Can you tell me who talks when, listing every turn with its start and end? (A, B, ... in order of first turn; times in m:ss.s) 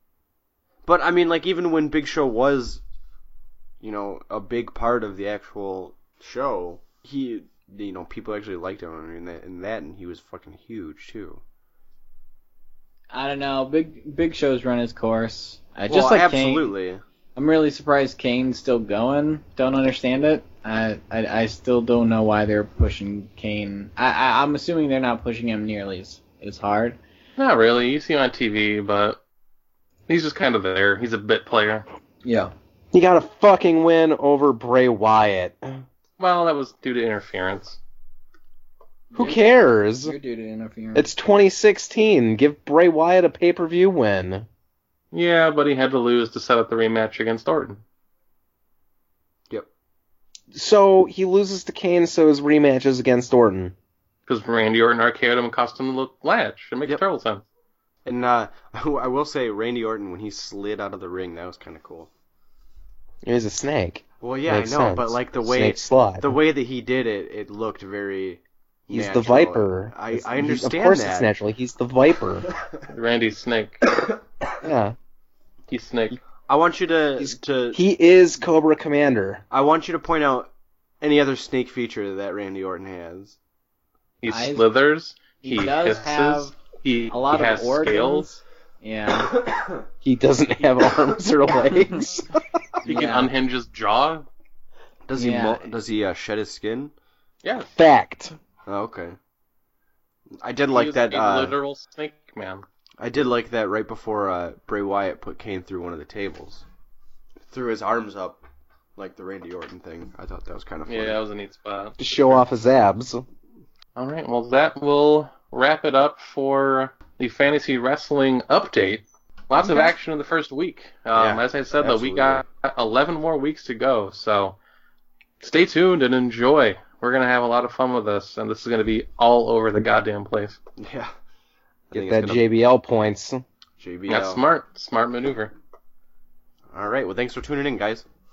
0:00.8-0:02.8 A
0:03.8-0:11.4 A
0:13.1-0:16.7 B
0:15.9-0:17.0 A
0:17.4-0:27.0 B
0:27.4-0:29.2 C
0:30.1-0:31.9 C
0:32.2-0:32.5 B
0:32.9-0:35.8 D
0:36.2-0:37.8 C
0:39.1-0:39.4 B
0:39.2-0:40.2 D
0:40.0-0:41.1 B
0:41.0-0:44.5 D
0:45.1-0:47.8 C
0:50.5-0:53.7 D
0:54.3-0:57.4 C
0:58.0-1:02.1 A
1:03.2-1:06.4 D
1:04.2-1:11.3 A
1:08.9-1:12.5 D
1:12.9-1:13.8 C
1:14.6-1:15.0 D
1:15.7-1:16.2 C
1:16.5-1:17.8 A
1:17.2-1:19.4 D
1:19.5-1:20.5 A
1:21.0-1:23.4 A
1:24.2-1:28.3 C
1:24.3-1:24.6 B
1:25.4-1:26.6 B
1:27.1-1:29.3 B
1:29.3-1:29.8 A
1:30.0-1:32.4 D
1:32.9-1:33.3 B
1:32.9-1:34.3 C
1:35.1-1:36.9 A
1:35.2-1:35.6 B
1:37.4-1:37.7 C
1:37.8-1:38.4 D
1:38.7-1:39.2 A
1:40.4-1:41.6 A
1:40.7-1:42.6 C
1:43.0-1:46.6 A
1:47.5-1:48.4 A
1:49.0-1:51.2 A
1:50.9-1:52.4 C
1:52.0-1:53.2 D
1:54.0-2:04.6 C
2:01.2-2:02.4 A
2:05.4-2:10.6 C
2:10.8-2:11.1 A
2:11.9-2:12.4 A
2:11.9-2:13.4 D
2:13.8-2:14.4 A
2:14.1-2:15.5 C
2:16.7-2:18.1 A